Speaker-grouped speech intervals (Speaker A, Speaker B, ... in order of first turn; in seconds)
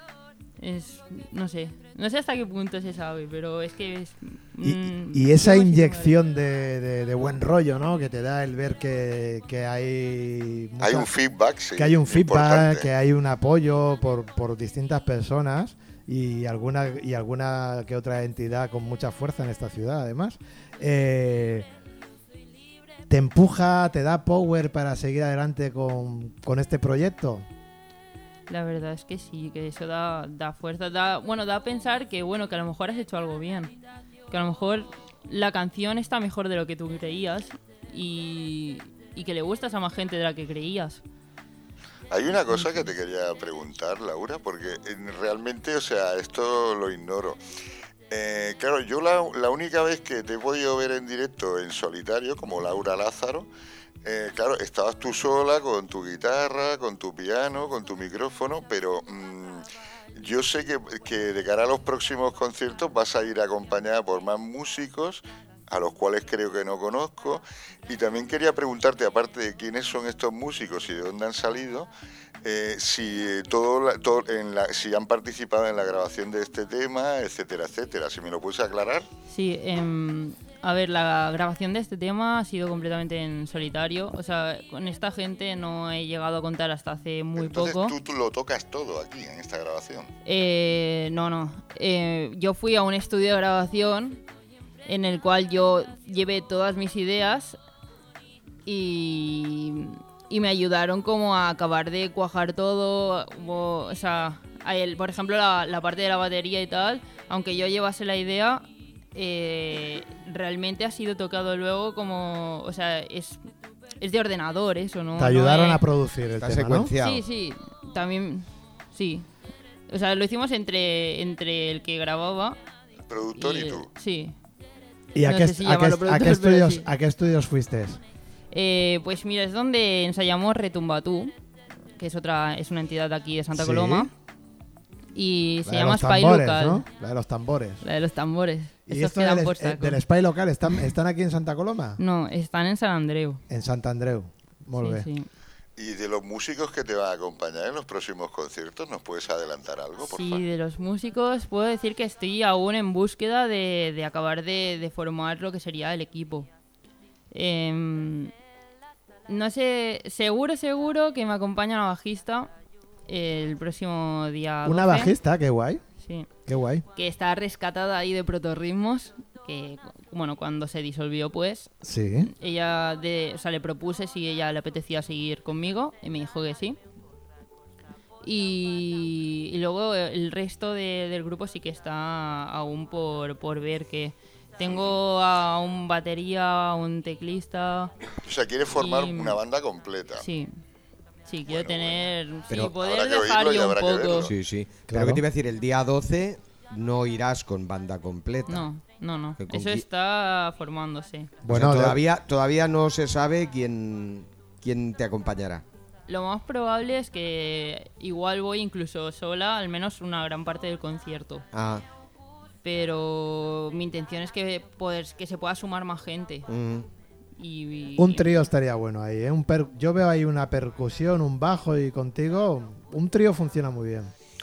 Speaker A: 0.6-6.2, 28.5-33.7, 34.3-41.0, 79.3-88.0, 90.2-94.2, 94.8-97.6, 98.7-113.4, 114.0-115.8, 117.0-119.3, 119.9-122.6, 123.3-124.3, 125.2-126.9, 128.5-131.3, 132.0-134.1, 135.1-136.8, 137.8-140.0, 142.0-143.4, 144.8-145.3, 150.0-156.5, 157.3-158.3, 159.3-162.5, 163.1-165.2, 166.0-166.3, 166.9-171.7, 172.2-176.8, 178.2-187.9, 188.7-189.4, 190.2-190.5, 191.3-194.3, 198.5-201.3, 206.1-211.4, 212.6-216.5, 217.4-218.4
Speaker B: 4.6-11.1, 11.7-21.7, 23.1-27.4, 115.1-116.9, 125.1-128.0, 133.5-134.1, 135.6-137.8, 138.9-142.0, 143.5-145.1, 164.6-165.8, 166.5-166.8, 171.8-172.3, 194.9-195.2, 201.4-202.0, 218.0-224.1
Speaker C: 10.8-12.9, 42.1-47.4, 48.1-53.5, 54.0-59.6, 60.1-71.9, 72.4-79.0, 87.4-90.1, 123.1-123.9, 145.8-150.4, 184.7-184.9, 188.2-190.2, 191.5-192.1, 192.8-194.3
Speaker D: 116.4-117.2, 194.2-198.7, 199.4-199.8, 201.5-205.6, 211.5-211.8, 216.5-216.9